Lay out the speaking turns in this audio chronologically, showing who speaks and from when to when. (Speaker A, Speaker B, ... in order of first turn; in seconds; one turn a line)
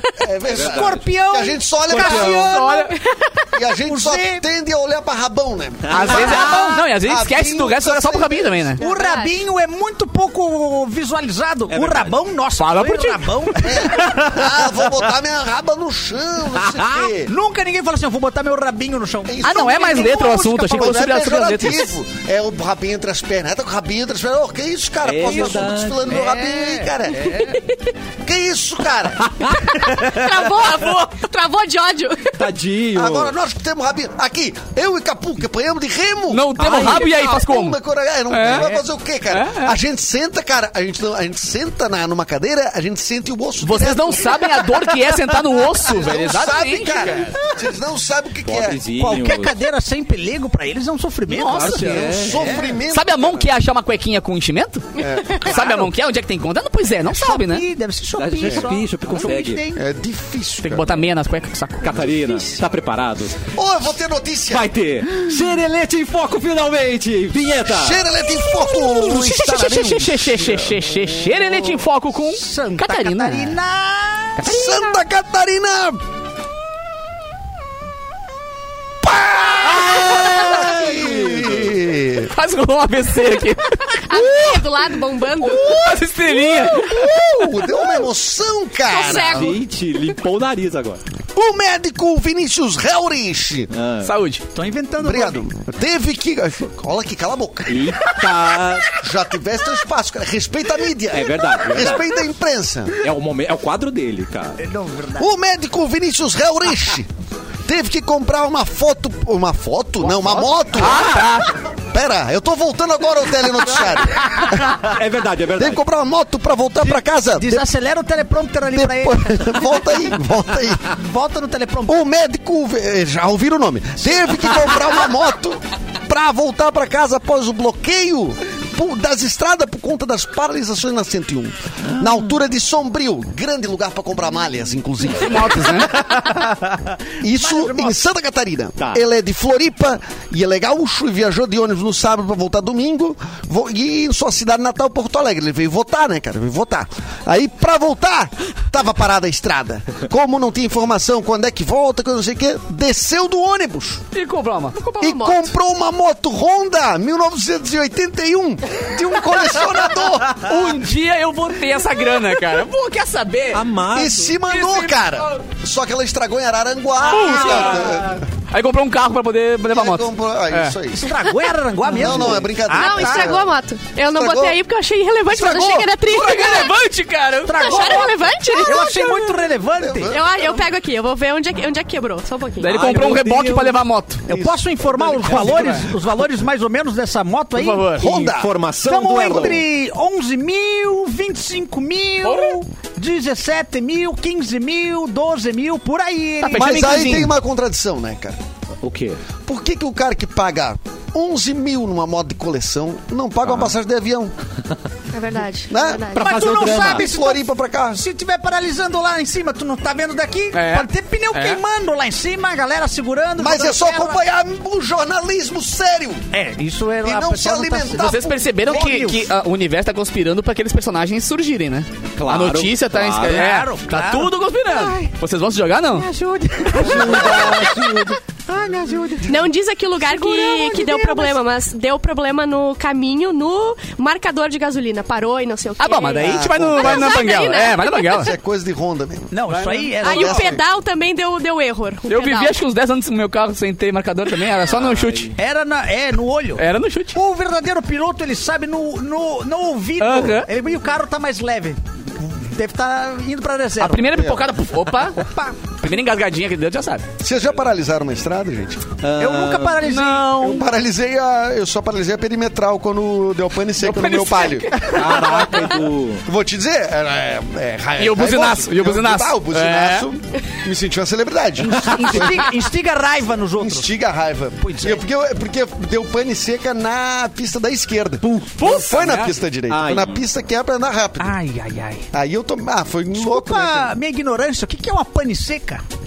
Speaker A: 0.2-2.7
Speaker B: 0.4-2.9
Speaker C: 0.5-1.0
Speaker C: 1.9-2.4
Speaker D: 2.5-2.9
Speaker E: 2.5-3.5
Speaker A: 3.5-8.7
Speaker B: 3.9-4.5
Speaker C: 5.9-6.8
Speaker D: 5.9-8.8
Speaker B: 8.8-14.7
Speaker E: 8.8-9.4
Speaker C: 11.7-12.2
Speaker D: 12.6-14.0
Speaker A: 13.6-17.3
Speaker C: 16.6-17.1
Speaker B: 17.2-19.5
Speaker A: 19.3-27.4
Speaker D: 19.4-21.9
Speaker C: 25.0-26.2
Speaker B: 26.1-27.3
Speaker D: 27.2-27.6
Speaker E: 27.2-27.8
Speaker A: 28.2-29.3
Speaker C: 29.2-29.8
Speaker E: 29.6-32.4
Speaker C: 32.4-33.3
Speaker A: 32.9-48.8
Speaker D: 36.3-37.8
Speaker C: 36.6-37.1
Speaker D: 38.3-39.8
Speaker D: 43.6-47.4
Speaker C: 48.4-49.6
Speaker B: 49.0-52.7
Speaker D: 51.3-57.7
Speaker C: 51.5-52.7
Speaker A: 52.0-53.5
Speaker A: 55.0-55.7
Speaker E: 55.0-55.3
Speaker B: 57.1-59.8
Speaker C: 58.2-59.6
Speaker A: 58.4-58.7
Speaker A: 59.7-61.0
Speaker D: 60.6-62.0
Speaker C: 61.8-63.4
Speaker A: 63.5-64.7
Speaker C: 64.5-68.0
Speaker A: 67.7-71.0
Speaker D: 68.6-73.6
Speaker B: 72.3-74.4
Speaker A: 74.4-76.0
Speaker D: 74.4-74.8
Speaker A: 79.0-82.3
Speaker C: 79.6-81.8
Speaker D: 82.2-84.5
Speaker E: 84.1-85.9
Speaker D: 85.4-87.1
Speaker A: 86.2-89.5
Speaker E: 88.9-89.6
Speaker C: 89.1-91.0
Speaker A: 91.3-93.7
Speaker C: 93.7-94.2
Speaker D: 94.0-94.4
Speaker B: 94.5-95.4
Speaker A: 95.0-98.0
Speaker C: 97.7-99.0
Speaker A: 98.9-103.0
Speaker C: 101.1-102.0
Speaker C: 103.0-104.6
Speaker B: 104.6-105.3
Speaker A: 105.2-107.1
Speaker A: 107.7-114.9
Speaker D: 110.0-111.6
Speaker C: 110.8-111.3
Speaker C: 114.5-115.8
Speaker A: 115.5-117.7
Speaker B: 116.8-119.6
Speaker A: 118.7-120.9
Speaker B: 120.9-122.0
Speaker A: 121.9-136.4
Speaker D: 135.2-136.1
Speaker B: 136.3-138.0
Speaker A: 137.2-154.0
Speaker C: 138.8-139.0
Speaker D: 154.1-154.9
Speaker E: 154.8-155.5
Speaker A: 155.0-160.8
Speaker D: 160.3-163.7
Speaker C: 163.5-164.3
Speaker A: 163.9-168.3
Speaker D: 164.5-165.4
Speaker D: 167.1-170.8
Speaker A: 169.7-171.1
Speaker B: 170.9-173.4
Speaker A: 171.9-173.5
Speaker E: 172.7-176.7
Speaker A: 174.1-174.6
Speaker A: 175.3-175.9
Speaker D: 176.0-178.1
Speaker B: 177.5-180.1
Speaker E: 177.6-179.4
Speaker A: 179.8-180.3
Speaker E: 180.1-182.8
Speaker D: 182.6-184.3
Speaker C: 182.7-183.8
Speaker B: 184.3-188.0
Speaker A: 184.3-185.7
Speaker D: 184.9-185.9
Speaker D: 187.6-188.1
Speaker A: 188.0-188.6
Speaker C: 188.0-189.7
Speaker B: 188.8-197.1
Speaker D: 192.2-192.6
Speaker D: 196.4-197.3
Speaker A: 196.5-198.4
Speaker C: 198.8-199.2
Speaker A: 199.5-204.3
Speaker C: 203.4-203.7
Speaker E: 205.1-206.5
Speaker A: 205.7-206.1
Speaker C: 206.2-207.1
Speaker B: 206.2-214.2
Speaker A: 206.6-208.0
Speaker D: 210.5-211.6
Speaker A: 213.4-216.3
Speaker B: 216.3-219.2
Speaker A: 217.0-219.0
Speaker D: 217.9-226.1
Speaker C: 222.2-223.5
Speaker B: 223.2-225.2
Speaker B: 225.9-231.4
Speaker C: 226.8-228.2
Speaker D: 226.8-227.3
Speaker E: 229.3-238.3
Speaker D: 235.8-238.3
Speaker A: 236.2-237.3
Speaker A: 238.1-239.4
Speaker B: 239.3-240.5
Speaker D: 239.5-240.3
Speaker E: 240.0-242.6
Speaker A: 240.1-240.6
Speaker D: 242.1-245.3
Speaker C: 244.6-245.3
Speaker B: 245.3-254.1
Speaker D: 246.6-247.2
Speaker D: 250.0-250.5
Speaker D: 253.8-257.1
Speaker A: 254.1-254.4
Speaker B: 255.2-255.6
Speaker A: 257.2-259.0
Speaker C: 259.0-259.8
Speaker B: 259.2-260.6
Speaker D: 259.8-260.7
Speaker A: 260.4-264.9
Speaker D: 263.8-265.4
Speaker C: 264.9-266.2
Speaker A: 266.2-272.5
Speaker D: 268.0-270.1
Speaker B: 271.6-273.9
Speaker A: 273.6-281.4
Speaker B: 274.6-275.0
Speaker D: 278.2-279.4
Speaker C: 279.7-280.2
Speaker B: 281.2-282.1
Speaker A: 282.1-283.9
Speaker B: 283.1-285.8